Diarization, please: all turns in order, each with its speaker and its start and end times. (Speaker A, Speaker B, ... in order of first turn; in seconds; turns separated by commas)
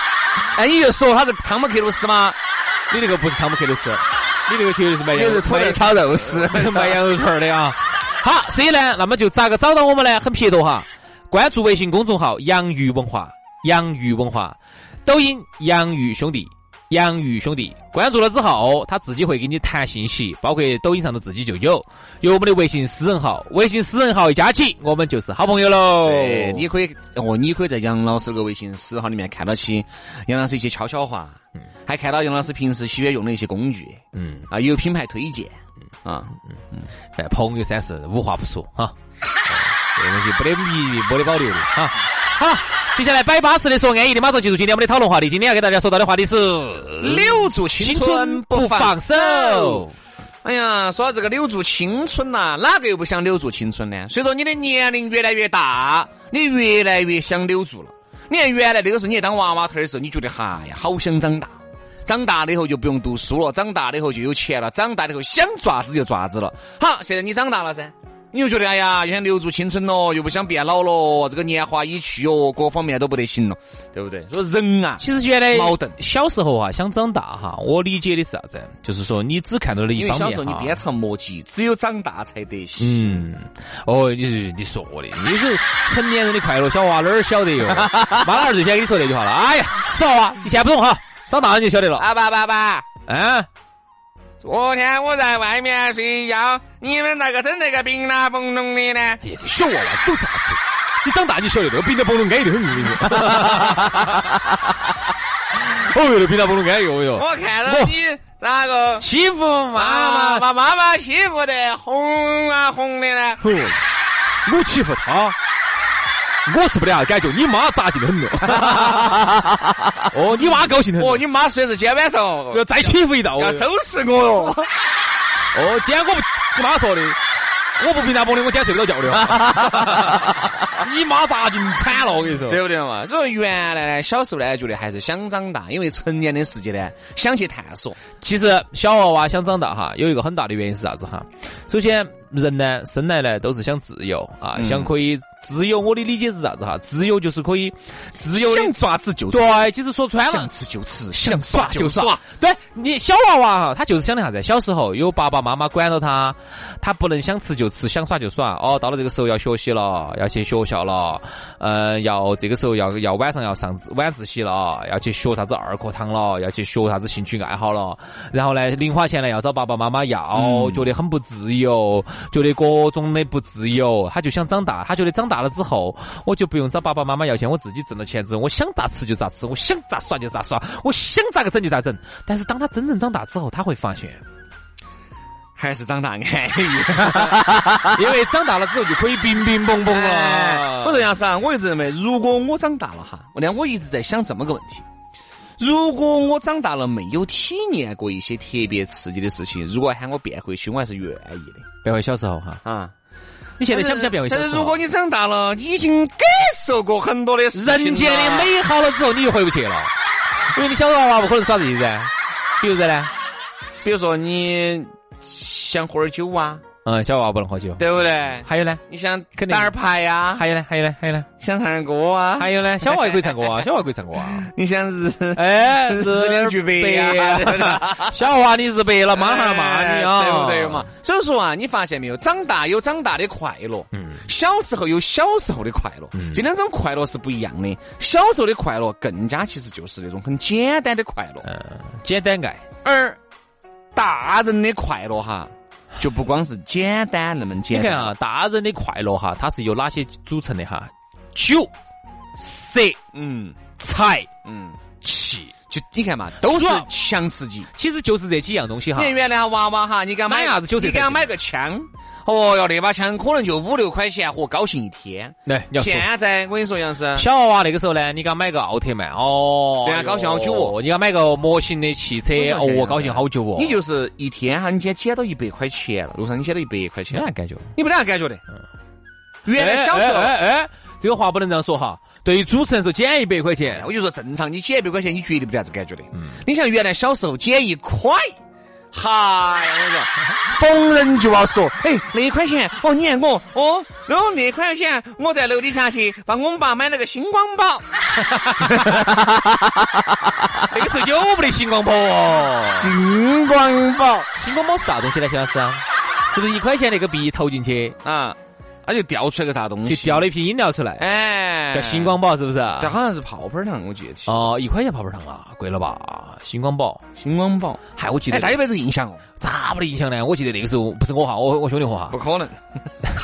Speaker A: 0.5-2.4, Speaker B: 2.9-26.7, Speaker A: 5.1-7.0, Speaker A: 26.0-36.9, Speaker B: 34.1-34.5, Speaker B: 37.1-38.9, Speaker B: 39.5-49.9, Speaker A: 47.0-49.9, Speaker A: 50.4-76.0, Speaker B: 75.0-80.8, Speaker A: 79.9-83.2, Speaker B: 82.8-92.1, Speaker A: 87.6-88.5, Speaker A: 92.0-92.9, Speaker B: 93.1-93.5, Speaker A: 94.4-99.2, Speaker B: 99.2-104.5, Speaker A: 103.0-104.0, Speaker B: 105.5-107.9, Speaker A: 107.1-109.1, Speaker B: 109.0-110.5, Speaker A: 109.7-113.4, Speaker B: 113.4-113.8, Speaker B: 114.5-115.3, Speaker B: 116.5-121.2, Speaker A: 118.5-119.3, Speaker A: 120.6-124.7, Speaker B: 122.5-123.6, Speaker B: 125.5-127.2, Speaker B: 127.8-132.6, Speaker A: 129.2-130.4, Speaker A: 132.5-138.0, Speaker B: 138.2-148.7, Speaker A: 144.6-144.9, Speaker A: 148.3-149.7, Speaker B: 149.3-150.5, Speaker A: 150.2-152.2, Speaker B: 151.1-184.2, Speaker A: 170.3-170.9, Speaker A: 185.6-188.0, Speaker B: 187.1-191.1, Speaker A: 189.8-194.8, Speaker A: 195.6-201.7, Speaker B: 201.8-202.6, Speaker A: 202.6-202.9, Speaker B: 203.6-204.8, Speaker A: 203.7-208.5, Speaker B: 207.5-209.9, Speaker B: 210.5-213.1, Speaker A: 213.8-216.6, Speaker B: 216.8-217.8, Speaker A: 217.8-220.4, Speaker B: 218.4-218.8, Speaker B: 219.3-219.7, Speaker B: 220.3-221.3, Speaker A: 221.4-223.7, Speaker B: 222.4-224.5, Speaker A: 224.2-228.2, Speaker B: 225.3-230.9, Speaker A: 229.1-241.5, Speaker B: 233.9-234.2, Speaker B: 236.1-236.4, Speaker B: 241.4-242.7, Speaker A: 242.8-243.2, Speaker A: 243.9-248.1, Speaker B: 247.7-251.7, Speaker B: 252.4-253.0, Speaker A: 253.1-253.6, Speaker B: 253.8-254.3, Speaker A: 254.4-254.8, Speaker B: 255.0-255.5, Speaker A: 255.7-257.7, Speaker B: 256.4-256.9, Speaker B: 257.7-259.2, Speaker A: 258.9-267.3, Speaker B: 260.3-261.3, Speaker B: 265.4-266.1, Speaker B: 267.1-273.8, Speaker A: 269.8-270.8, Speaker A: 272.3-278.4, Speaker B: 277.1-277.7, Speaker A: 279.4-280.4, Speaker B: 279.5-283.9, Speaker A: 283.6-288.4, Speaker A: 288.9-297.8, Speaker B: 298.2-299.6, Speaker A: 298.7-299.2, Speaker B: 300.6-302.9, Speaker A: 302.6-304.3, Speaker B: 304.4-308.0, Speaker A: 308.0-310.3, Speaker B: 309.9-311.0, Speaker A: 311.0-312.2, Speaker B: 311.7-312.9, Speaker A: 312.8-314.4, Speaker B: 314.2-317.0, Speaker A: 317.1-319.2, Speaker B: 317.9-318.6, Speaker B: 319.4-322.2, Speaker A: 322.1-322.6